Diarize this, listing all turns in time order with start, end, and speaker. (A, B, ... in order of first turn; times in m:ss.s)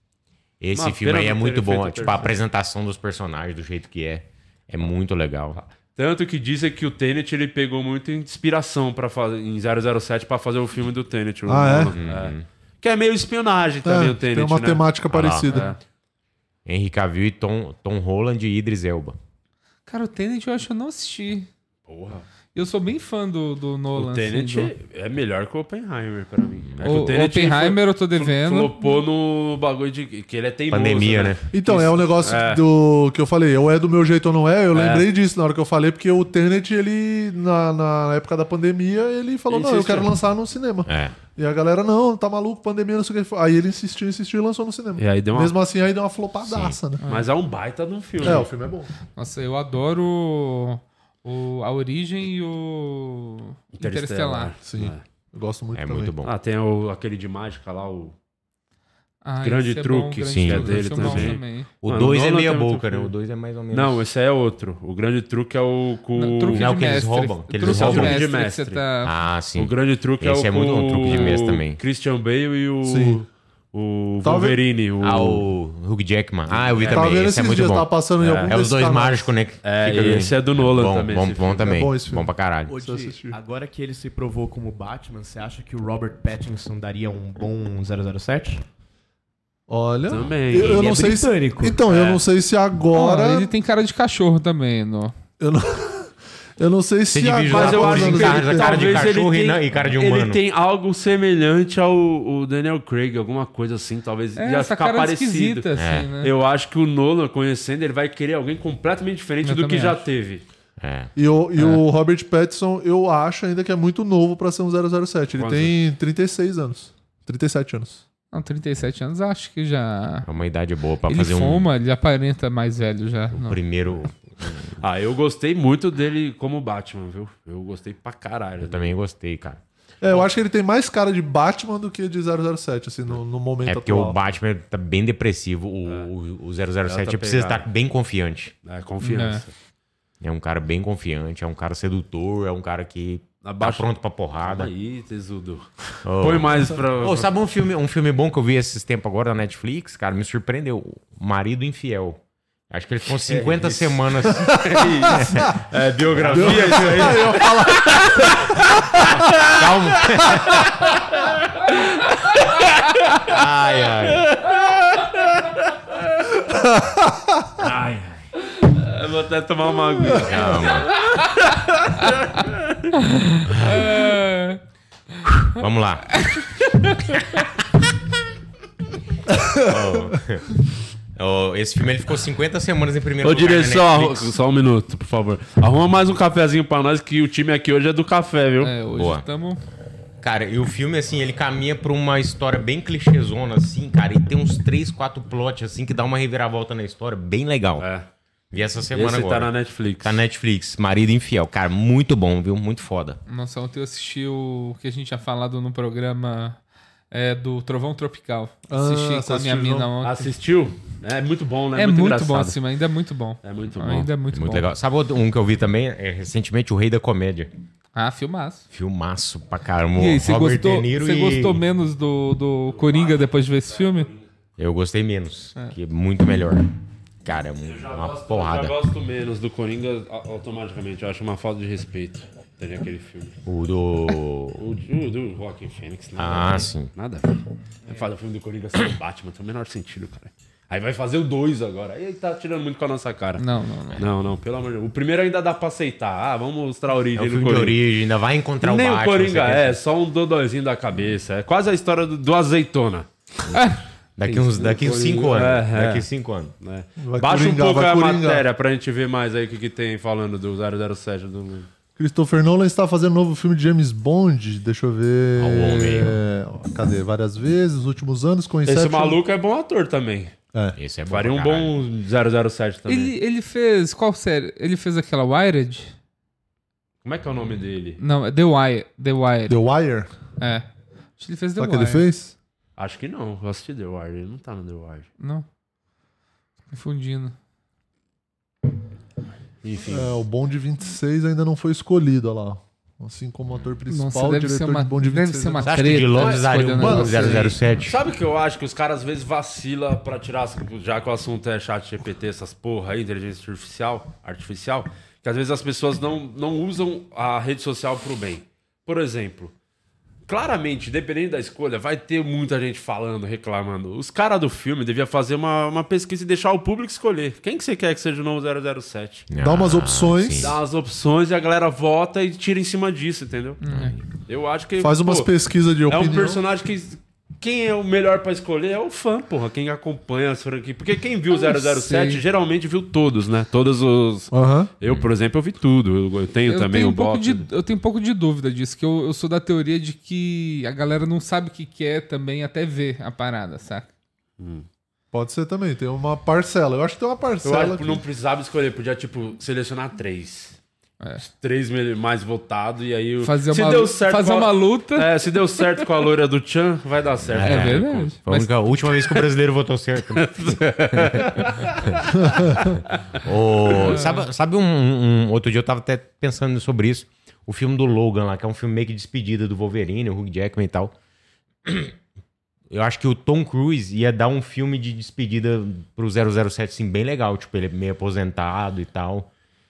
0:00.6-0:05.6 A
0:00.7-0:02.3 B
0:05.6-0:14.9 B
0:11.5-0:11.9 C
0:11.9-0:12.4 A
0:13.8-0:15.7 C
0:15.1-0:15.5 A
0:15.5-0:15.8 B
0:16.7-0:19.2 A
0:19.9-0:21.5 D
0:21.9-0:22.2 B
0:22.6-0:24.7 D
0:23.9-0:32.6 B
0:26.7-0:27.0 A
0:26.8-0:28.8 D
0:30.7-0:31.4 A
0:31.5-0:47.0 C
0:34.7-0:35.1 B
0:39.5-0:40.1 B
0:40.9-0:41.2 A
0:45.0-0:45.6 B
0:46.4-0:46.8 A
0:47.0-0:47.3 D
0:47.1-0:48.5 B
0:48.2-0:48.9 C
0:49.2-0:54.5 D
0:53.8-0:55.0 B
0:54.7-0:56.1 C
0:55.7-0:56.3 A
0:56.2-0:58.2 B
0:59.2-1:01.7 D
0:59.4-1:03.1 B
1:00.2-1:04.0 A
1:03.7-1:06.7 B
1:06.2-1:09.1 D
1:06.5-1:08.2 A
1:07.6-1:08.8 B
1:09.0-1:11.8 A
1:09.6-1:15.4 B
1:12.8-1:13.2 C
1:14.2-1:14.6 C
1:15.0-1:22.7 A
1:16.5-1:17.3 B
1:16.9-1:19.3 C
1:18.2-1:18.5 B
1:19.6-1:21.8 B
1:21.6-1:23.4 C
1:22.7-1:28.6 E
1:29.7-1:33.5 C
1:30.1-1:31.0 B
1:30.7-1:31.8 E
1:31.9-1:32.2 B
1:32.9-1:35.2 D
1:35.4-1:39.1 C
1:37.1-1:40.4 A
1:37.5-1:50.4 B
1:44.4-1:46.3 D
1:45.8-1:46.1 A
1:49.4-1:50.0 D
1:50.8-1:51.1 A
1:51.2-1:58.0 C
1:55.3-1:55.8 B
1:58.3-2:00.3 D
2:00.2-2:01.7 A
2:01.1-2:03.6 D
2:03.3-2:04.8 A
2:04.8-2:09.0 B
2:08.6-2:09.6 A
2:10.0-2:14.2 C
2:13.6-2:18.5 A
2:16.8-2:17.6 B
2:18.6-2:19.5 B
2:19.0-2:19.4 D
2:20.2-2:24.7 A
2:23.4-2:27.3 B
2:26.0-2:32.2 A
2:32.7-2:37.3 A
2:33.2-2:37.5 B
2:34.5-2:35.5 C
2:36.3-2:39.1 C
2:39.4-2:40.7 A
2:43.2-2:44.3 A
2:44.3-2:45.1 B
2:46.5-2:47.6 C
2:47.6-2:48.1 B
2:48.6-2:51.2 B
2:50.1-2:51.0 A
2:52.0-2:52.6 B
2:53.0-2:54.6 D
2:53.5-2:54.0 A
2:55.5-2:56.4 A
2:59.4-2:59.8 C
2:59.6-3:00.6 A
3:01.2-3:04.3 A
3:03.2-3:08.7 B
3:08.6-3:09.6 D
3:08.9-3:09.2 A
3:10.2-3:17.9 A
3:17.8-3:18.1 B
3:18.5-3:23.2 A
3:18.9-3:20.2 B
3:23.3-3:26.6 D
3:27.1-3:30.3 D
3:28.7-3:29.9 C
3:30.0-3:32.6 B
3:31.8-3:34.7 D
3:33.4-3:34.1 B
3:34.3-3:37.5 A
3:38.0-3:38.7 D
3:38.7-3:41.6 A
3:40.0-3:44.1 D
3:42.7-3:44.2 B
3:44.6-3:46.7 A
3:47.2-3:48.8 A
3:47.6-3:53.4 B
3:53.4-3:54.6 A
3:54.6-4:03.4 B
3:56.2-3:56.9 A
4:03.4-4:04.0 D
4:04.0-4:07.8 B
4:07.1-4:09.8 A
4:08.6-4:13.1 B
4:13.5-4:13.8 D
4:14.2-4:16.5 A
4:14.5-4:16.1 B
4:16.6-4:21.7 B
4:17.0-4:18.4 C
4:22.0-4:29.2 C
4:25.4-4:26.2 A
4:28.6-4:30.3 B
4:30.8-4:31.8 A
4:31.1-4:33.1 B
4:32.9-4:35.9 D
4:37.0-4:38.0 B
4:38.0-4:39.6 D
4:39.5-4:40.1 C
4:40.4-4:40.7 D
4:41.2-4:42.1 D
4:41.6-4:42.3 C
4:42.8-4:45.1 B
4:45.2-4:45.5 D
4:46.7-4:47.3 D
4:49.6-4:50.2 B
4:49.9-4:57.5 C
4:53.9-4:57.5 D
4:55.6-4:58.0 A
4:57.8-5:09.5 B
5:10.3-5:19.3 B
5:19.3-5:20.6 A
5:19.4-5:20.6 C
5:20.4-5:23.6 B
5:23.6-5:24.0 D
5:23.7-5:24.0 A
5:24.3-5:25.3 B
5:24.8-5:26.4 C
5:25.9-5:37.5 B
5:31.3-5:32.2 D
5:34.3-5:34.7 C
5:36.5-5:43.9 D
5:44.4-5:44.7 B
5:45.1-5:48.0 C
5:47.4-5:50.6 B
5:51.2-5:58.1 B
5:53.2-5:55.3 D
5:57.3-6:02.1 A
5:57.4-5:58.5 D
6:00.1-6:02.6 B
6:03.2-6:10.9 A
6:03.7-6:04.0 B
6:03.9-6:04.2 D
6:11.6-6:11.9 A
6:12.7-6:19.3 A